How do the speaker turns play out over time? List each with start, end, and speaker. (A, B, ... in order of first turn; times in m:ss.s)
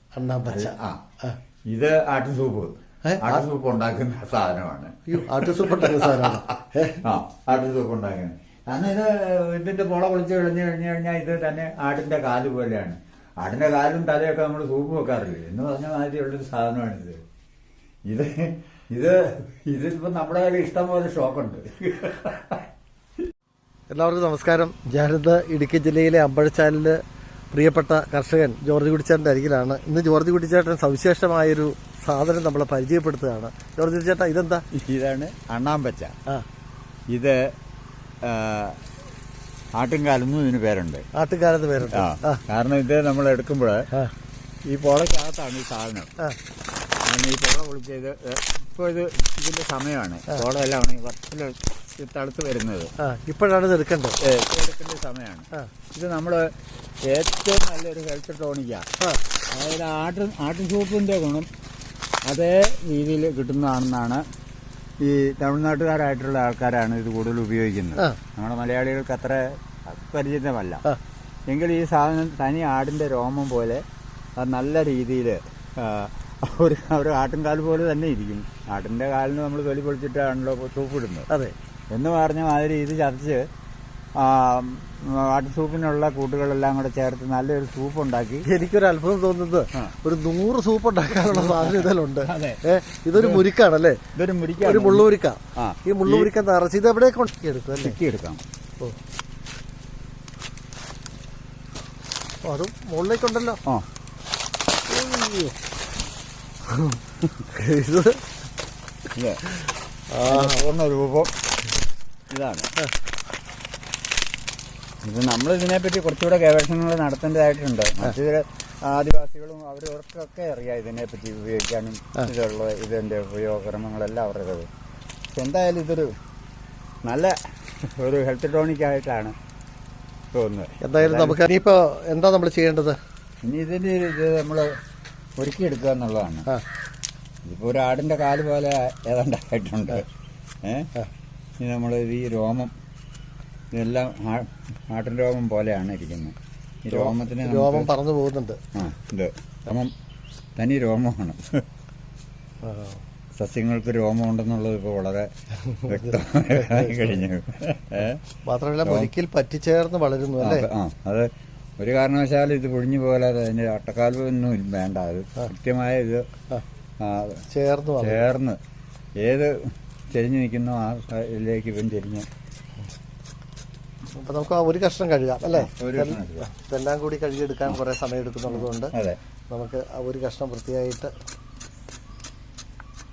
0:00.1-0:01.4 A
0:00.5-0:01.0 B
0:01.7-0:06.4 B
0:03.0-0:03.4 A
0:05.1-0:07.0 A
0:07.0-0:17.2 B
0:18.0-0:22.6 B
0:23.9-0:27.0 A
0:27.5-0:34.6 A
0:34.7-0:36.1 B
0:37.1-0:37.5 B
0:38.2-0:38.8 B
0:39.8-0:41.0 B
0:41.1-0:42.4 A
0:41.9-0:43.8 B
0:44.7-0:46.2 B
0:47.0-0:52.9 B
0:53.0-0:54.2 A
0:54.2-0:56.5 B
0:57.0-0:58.8 B
0:59.5-1:01.5 B
1:02.2-1:04.2 B
1:05.0-1:10.8 B
1:11.5-1:13.8 B
1:14.4-1:21.3 B
1:21.9-1:23.4 B
1:24.2-1:28.4 B
1:28.4-1:34.0 A
1:31.3-1:32.6 B
1:33.1-1:33.5 B
1:34.1-1:36.3 B
1:34.6-1:38.0 A
1:37.8-1:38.4 B
1:42.4-1:43.6 A
1:44.9-1:45.6 A
1:46.7-1:48.2 A
1:49.1-1:49.4 B
1:50.1-1:50.6 A
1:50.2-1:51.3 B
1:52.3-1:52.7 B
1:55.0-2:04.7 B
2:05.3-2:06.1 B
2:07.0-2:09.3 B
2:10.3-2:11.4 B
2:10.8-2:13.0 A
2:13.4-2:14.7 B
2:15.4-2:16.5 B
2:17.4-2:20.1 B
2:20.6-2:20.9 B
2:21.6-2:22.7 B
2:23.7-2:27.9 B
2:26.9-2:28.6 A
2:28.7-2:29.9 B
2:30.6-2:31.6 B
2:32.6-2:33.0 A
2:33.4-2:35.3 B
2:35.7-2:37.2 A
2:35.9-2:38.2 B
2:38.4-2:40.7 A
2:38.8-2:39.1 B
2:40.4-2:46.3 B
2:47.0-2:47.4 B
2:47.5-2:48.2 A
2:48.0-2:48.6 B
2:49.2-2:52.2 B
2:54.2-2:58.9 A
2:55.5-2:56.5 B
2:58.5-2:59.2 B
2:59.5-3:01.1 A